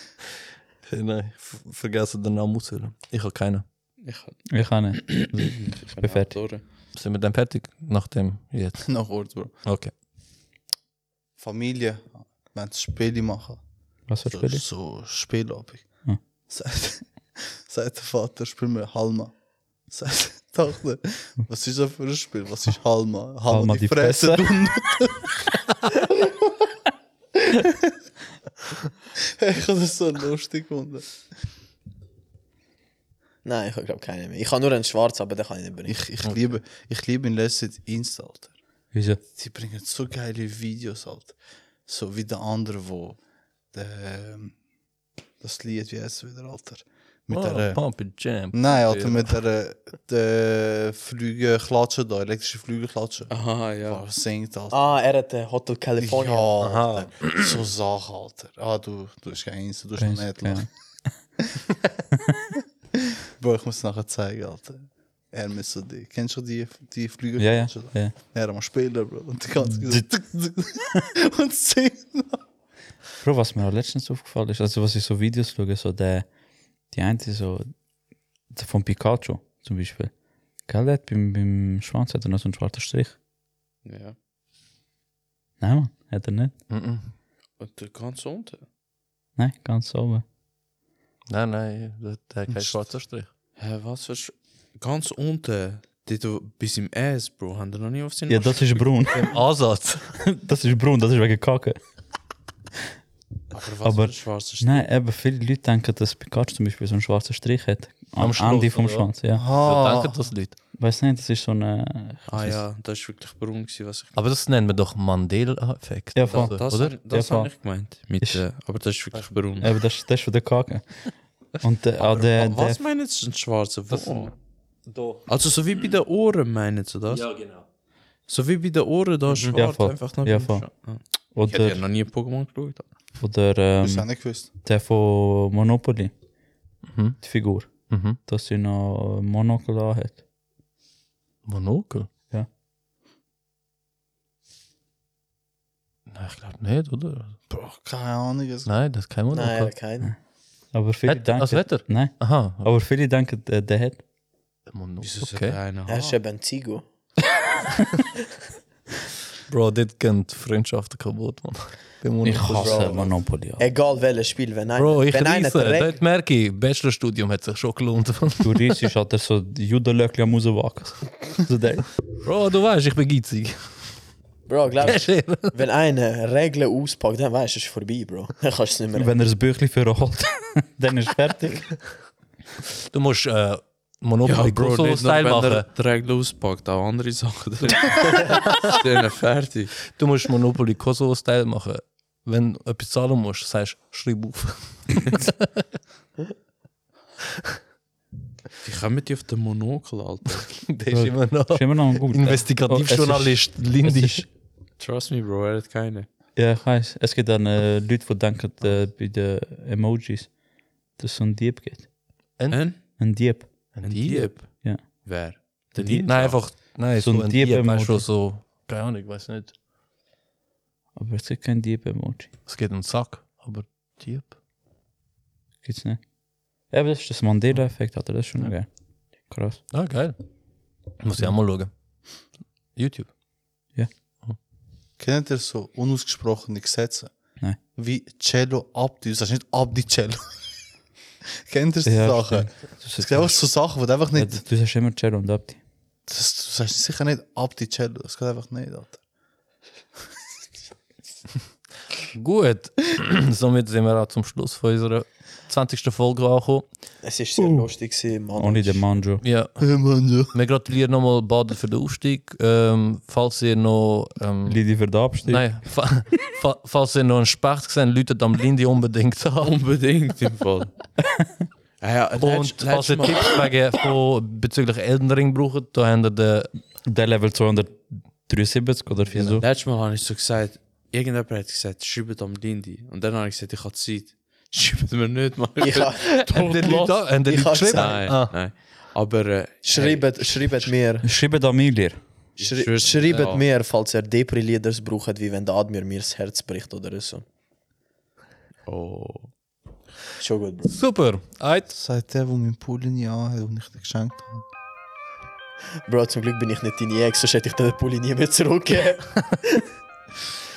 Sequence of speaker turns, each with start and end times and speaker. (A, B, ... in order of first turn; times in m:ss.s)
0:00.8-0:03.6 A
0:04.0-0:06.6 B
0:04.5-0:06.4 C
0:06.9-0:09.0 A
0:08.8-0:09.6 D
0:09.6-0:09.9 A
0:11.4-0:13.6 D
0:14.1-0:14.6 C
0:14.3-0:25.3 D
0:23.5-0:24.4 C
0:27.5-0:27.9 D
0:29.2-0:31.2 D
0:33.4-0:36.0 E
0:35.8-0:38.5 D
0:38.9-0:39.2 C
0:39.3-0:41.3 D
0:41.8-0:43.2 D
0:43.7-0:44.5 D
0:45.4-0:54.8 D
0:47.3-0:49.3 A
0:53.3-0:54.0 B
0:54.7-0:57.1 E
0:56.0-1:00.7 D
0:56.6-0:57.3 A
1:00.0-1:01.1 C
1:03.4-1:12.4 D
1:07.4-1:08.1 C
1:09.7-1:10.0 C
1:13.2-1:16.3 C
1:16.9-1:17.8 C
1:18.5-1:20.1 C
1:20.6-1:23.2 C
1:23.8-1:24.2 B
1:25.6-1:26.5 C
1:26.7-1:27.1 A
1:27.6-1:28.7 B
1:29.4-1:30.2 C
1:31.3-1:33.3 A
1:33.6-1:38.9 B
1:38.3-1:39.2 C
1:39.1-1:40.2 A
1:40.2-1:41.8 C
1:43.5-1:44.9 B
1:43.8-1:49.4 C
1:48.2-1:50.6 A
1:49.3-1:50.3 D
1:50.8-1:52.6 C
1:52.3-1:54.1 B
1:54.1-1:57.0 A
1:56.1-1:57.5 C
1:56.3-1:59.7 B
1:59.1-1:59.7 A
1:59.6-2:02.8 C
2:02.0-2:04.3 B
2:03.9-2:04.3 A
2:04.8-2:05.3 A
2:05.3-2:07.3 B
2:07.1-2:07.7 A
2:08.3-2:12.9 B
2:09.3-2:09.6 A
2:09.5-2:10.7 C
2:11.3-2:11.8 C
2:13.2-2:16.1 C
2:13.8-2:14.5 D
2:16.9-2:18.2 A
2:17.2-2:20.2 C
2:21.4-2:22.1 A
2:26.1-2:27.4 A
2:27.5-2:28.7 D
2:28.6-2:29.7 A
2:29.3-2:30.1 E
2:30.7-2:34.0 C
2:31.0-2:32.7 A
2:34.7-2:35.6 A
2:35.0-2:36.2 B
2:35.9-2:36.9 E
2:39.5-2:43.1 A
2:42.2-2:43.6 C
2:42.5-2:46.0 E
2:44.7-2:48.8 A
2:48.4-2:51.9 C
2:52.2-2:54.0 A
2:54.5-2:59.2 E
2:54.8-2:55.5 A
2:59.0-3:01.8 C
3:02.9-3:05.7 A
3:04.2-3:09.8 B
3:09.9-3:15.6 A
3:18.6-3:20.5 B
3:20.5-3:24.2 A
3:20.9-3:24.2 C
3:24.8-3:26.1 B
3:26.4-3:30.4 C
3:30.9-3:31.9 C
3:32.4-3:32.7 A
3:32.5-3:32.8 B
3:33.0-3:33.5 C
3:33.7-3:34.3 A
3:33.8-3:36.4 B
3:34.6-3:38.1 C
3:36.0-3:39.5 A
3:41.0-3:42.3 C
3:42.4-3:44.4 A
3:45.6-3:46.1 C
3:46.7-3:49.6 C
3:49.7-3:50.2 A
3:50.9-3:53.1 A
3:55.0-3:57.1 D
3:57.7-4:00.2 D
4:01.4-4:04.4 D
4:01.8-4:05.6 C
4:06.1-4:09.0 D
4:12.1-4:16.7 A
4:17.0-4:18.8 E
4:17.4-4:17.7 C
4:18.4-4:19.2 C
4:19.2-4:19.6 A
4:19.6-4:20.3 D
4:20.3-4:24.6 A
4:24.4-4:26.1 C
4:25.2-4:29.6 A
4:29.4-4:30.7 B
4:31.8-4:33.4 B
4:32.2-4:36.5 A
4:36.8-4:39.4 C
4:39.1-4:39.4 A
4:39.4-4:47.1 B
4:45.6-4:46.0 E
4:46.1-4:48.4 A
4:47.2-4:48.1 E
4:47.7-4:50.3 B
4:49.6-4:51.1 E
4:51.0-4:52.0 C
4:52.4-4:53.4 B
4:52.4-4:57.2 E
4:58.6-4:59.3 B
5:00.2-5:00.7 E
5:00.7-5:01.7 A
5:01.7-5:04.4 D
5:05.8-5:09.6 E